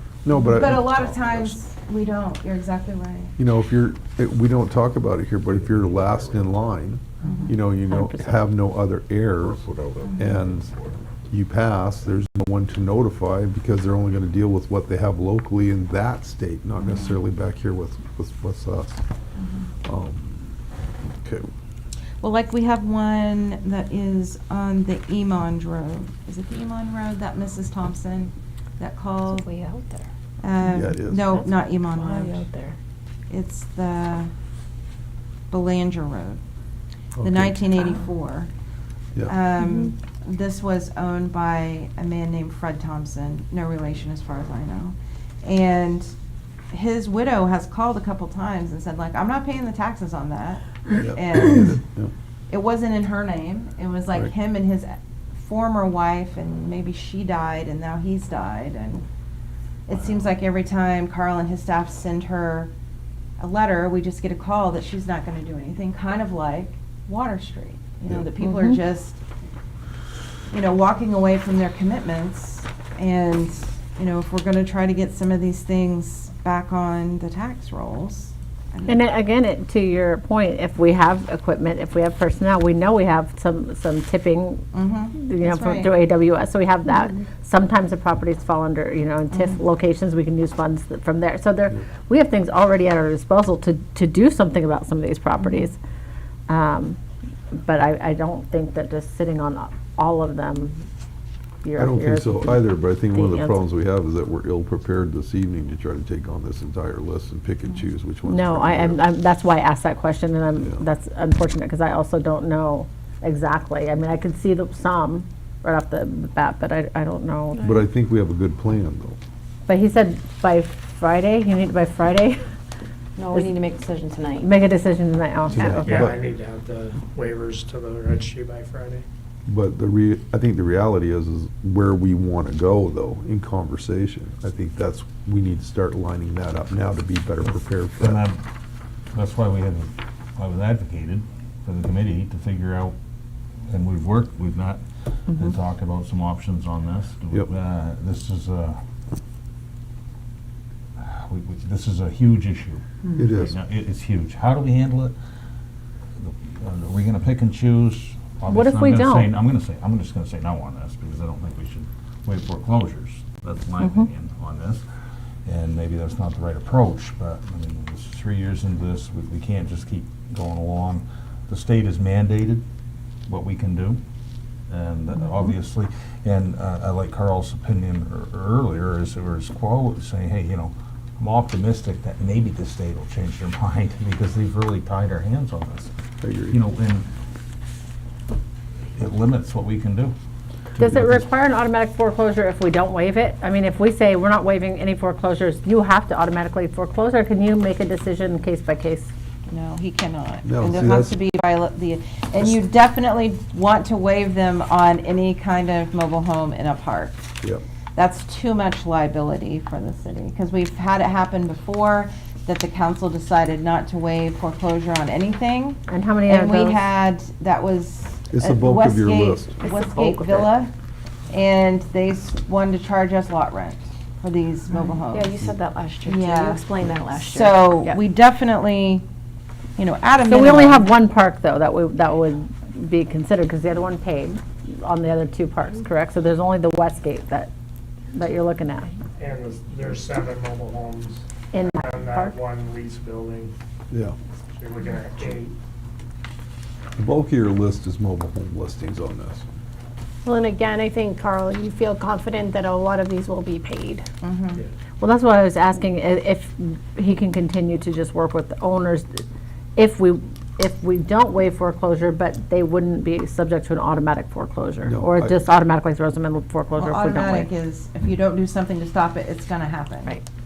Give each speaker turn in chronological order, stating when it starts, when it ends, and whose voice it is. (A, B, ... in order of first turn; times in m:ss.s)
0:00.2-0:01.6 A
0:00.4-0:03.3 B
0:03.4-0:09.7 A
0:05.5-0:06.6 C
0:07.2-0:07.5 B
0:07.8-0:08.4 D
0:09.4-0:11.0 C
0:10.0-0:10.4 B
0:10.2-0:10.7 A
0:11.3-0:19.0 A
0:16.8-0:17.2 B
0:19.4-0:19.7 B
0:19.8-0:20.6 A
0:21.2-0:21.5 A
0:22.2-0:29.5 B
0:29.2-0:30.1 E
0:30.4-0:32.5 B
0:30.7-0:31.2 A
0:31.3-0:32.8 E
0:33.3-0:34.3 B
0:35.5-0:36.4 B
0:37.2-0:37.6 A
0:37.2-0:38.5 B
0:39.3-0:46.1 B
0:46.7-0:51.8 B
0:50.9-0:52.1 A
0:52.5-0:59.0 B
0:59.9-1:02.7 B
1:03.4-1:09.2 B
1:08.4-1:08.8 D
1:10.5-1:19.1 B
1:18.9-1:35.8 D
1:24.7-1:26.0 B
1:29.3-1:29.6 B
1:36.5-1:37.0 D
1:37.5-1:40.8 D
1:41.6-1:43.6 D
1:41.8-1:49.0 A
1:48.2-1:57.7 D
1:57.6-1:59.2 A
1:59.7-2:02.4 D
2:03.2-2:04.6 E
2:03.3-2:03.6 D
2:04.4-2:06.1 D
2:05.5-2:06.1 A
2:05.8-2:09.0 F
2:09.5-2:18.2 A
2:18.0-2:18.4 C
2:19.1-2:23.0 C
2:23.7-2:28.8 C
2:31.0-2:35.1 C
2:33.2-2:33.6 A
2:36.2-2:44.8 C
2:38.5-2:39.3 D
2:45.5-2:52.6 C
2:53.3-2:54.0 C
2:54.7-3:05.9 C
3:06.2-3:06.6 A
3:06.5-3:07.1 C
3:09.0-3:10.1 C
3:10.8-3:19.1 D
3:10.8-3:11.2 A
3:19.5-3:27.2 B
3:20.4-3:21.2 A
3:28.0-3:40.7 B
3:35.9-3:36.8 D
3:38.3-3:39.6 A
3:39.7-3:40.2 E
3:41.3-3:49.1 B
3:45.1-3:48.0 E
3:49.8-3:50.9 B
3:50.3-3:57.5 D
3:58.1-3:58.9 D
3:59.2-4:03.5 F
4:01.5-4:02.4 D
4:04.6-4:05.6 F
4:07.0-4:09.4 A
4:10.2-4:14.0 G
4:14.2-4:14.6 B
4:15.0-4:19.2 D
4:19.8-4:27.5 D
4:24.8-4:25.4 A
4:26.8-4:30.2 B